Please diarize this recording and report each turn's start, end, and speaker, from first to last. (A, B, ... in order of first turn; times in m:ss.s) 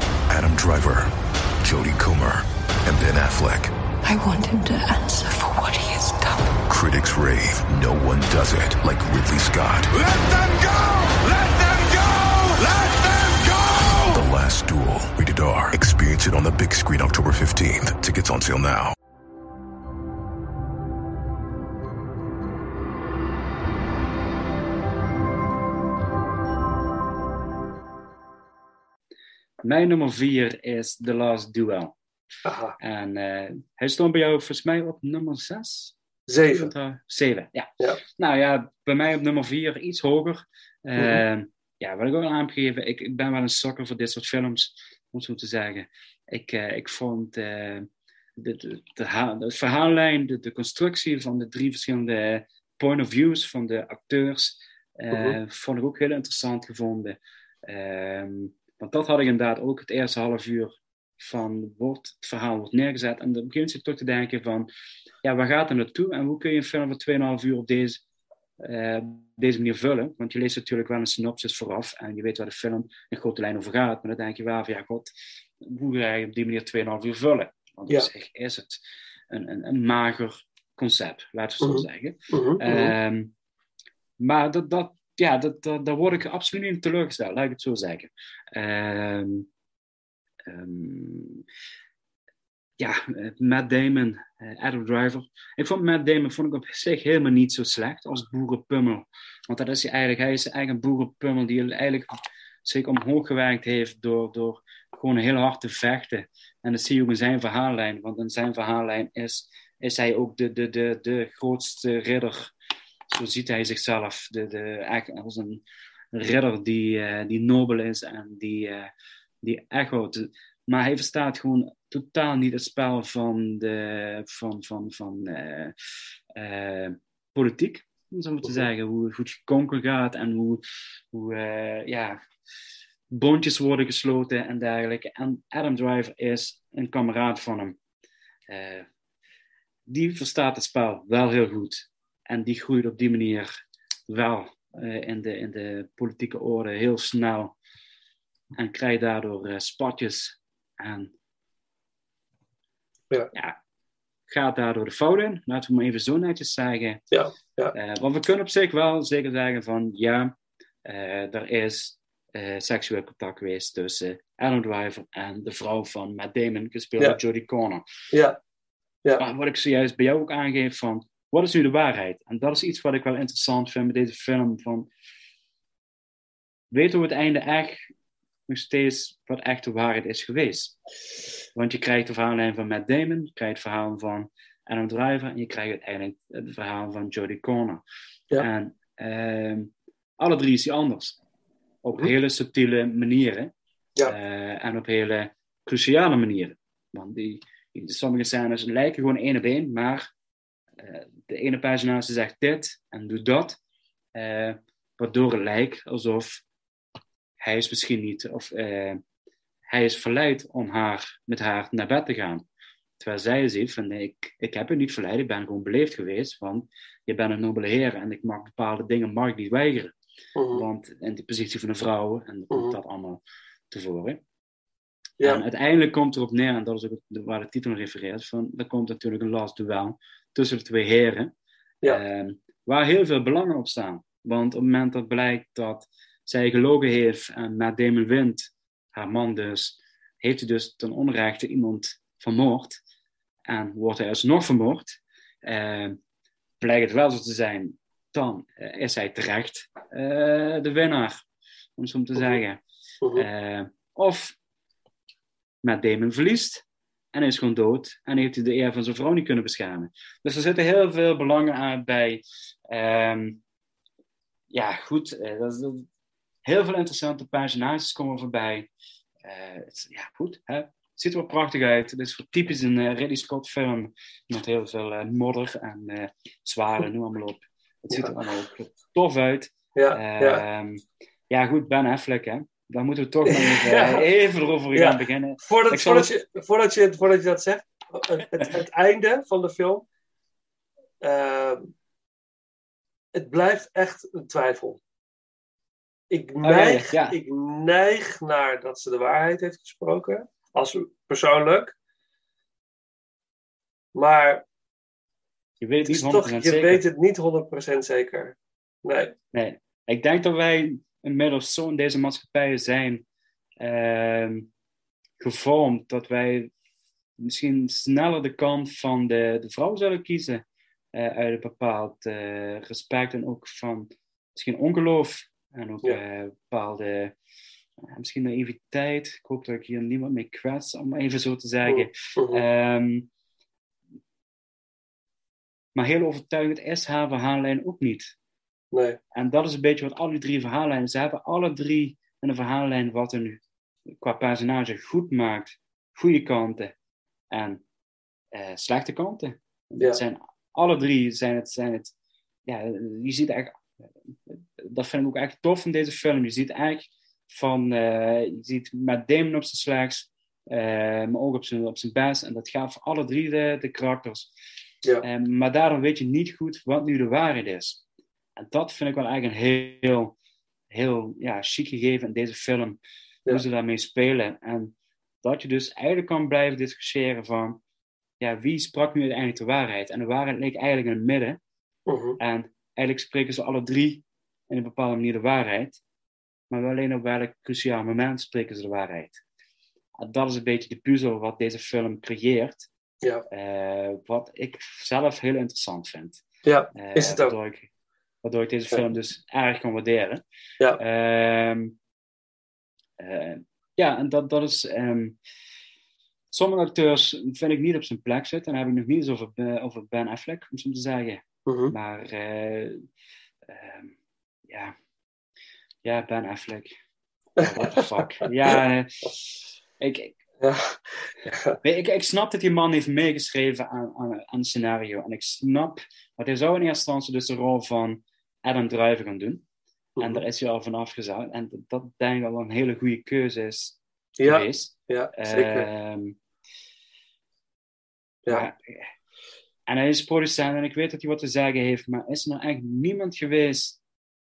0:00.3-0:01.1 A
0:01.6-0:03.7 A
0:04.1-0:06.4 B
0:06.6-0:09.9 A
0:09.9-0:14.2 C
0:14.1-0:18.9 A
0:29.6-0:31.9 D
0:32.4-0:32.8 E
0:32.8-0:35.9 D
0:36.3-0:36.7 E
0:36.5-1:04.7 D
0:55.1-0:55.4 E
1:05.2-1:08.0 D
1:08.6-1:15.1 D
1:15.6-1:23.3 D
1:21.6-1:22.9 E
1:24.2-1:29.5 D
1:30.5-1:31.4 D
1:32.8-1:42.1 D
1:42.6-1:52.5 D
1:53.1-1:58.9 D
1:59.4-2:05.7 D
2:06.4-2:12.2 D
2:13.1-2:17.8 D
2:18.5-2:18.9 D
2:19.9-2:23.5 D
2:24.1-2:27.6 D
2:28.6-2:31.1 D
2:34.3-2:37.0 D
2:37.1-2:37.7 E
2:37.7-2:40.3 D
2:40.8-2:47.8 D
2:48.1-2:48.4 E
2:49.2-2:54.9 D
2:56.7-2:57.8 D
2:58.5-3:00.8 D
3:01.5-3:07.8 D
3:08.4-3:11.2 D
3:11.8-3:13.5 D
3:14.0-3:20.1 D
3:20.8-3:23.6 D
3:24.1-3:26.4 D
3:27.4-3:29.0 D
3:29.7-3:32.4 D
3:33.0-3:39.9 D
3:40.4-3:40.6 E
3:40.5-3:44.2 D
3:42.5-3:42.8 E
3:45.2-3:51.3 D
3:51.9-4:02.8 D
4:03.5-4:06.0 D
4:06.6-4:11.2 D
4:11.8-4:12.6 D
4:13.2-4:14.3 D
4:15.6-4:16.6 D
4:17.1-4:23.4 D
4:24.5-4:25.9 D
4:26.4-4:28.7 D
4:29.2-4:46.1 D
4:39.8-4:40.4 E
4:43.3-4:44.0 E
4:44.8-4:49.8 E
4:51.0-4:51.7 E
4:53.1-4:54.8 E
4:56.1-5:01.7 E
4:56.4-4:57.2 D
5:04.0-5:04.4 E
5:05.6-5:06.8 D
5:05.9-5:09.1 E
5:09.3-5:13.0 D
5:13.6-5:14.5 D
5:15.2-5:16.5 D
5:17.2-5:20.4 D
5:21.0-5:27.1 D
5:27.9-5:33.1 D
5:31.7-5:32.4 E
5:35.8-5:38.1 D
5:38.7-5:39.0 E
5:39.1-5:43.4 D
5:44.0-5:46.7 D
5:47.3-5:47.6 D
5:48.3-5:51.9 D
5:52.4-5:53.6 D
5:54.3-6:04.3 D
6:05.0-6:07.8 D
6:08.4-6:10.1 D
6:10.7-6:17.6 D
6:18.2-6:21.4 D
6:21.9-6:22.2 E
6:22.2-6:25.8 D
6:26.5-6:29.2 D
6:30.0-6:32.7 D
6:33.3-6:36.2 D
6:36.4-6:37.3 E
6:36.8-6:37.7 D
6:38.2-6:40.2 D
6:40.8-6:41.8 D
6:43.0-6:45.2 D
6:46.3-6:52.9 D
6:51.4-6:51.7 E
6:53.5-6:53.9 D
6:54.5-6:54.8 D
6:55.8-6:56.7 D
6:57.4-6:57.7 E
6:57.4-7:00.2 D
7:00.4-7:01.6 E
7:01.6-7:09.4 D
7:10.0-7:16.2 D
7:14.2-7:15.7 E
7:18.3-7:18.9 D
7:19.7-7:23.8 D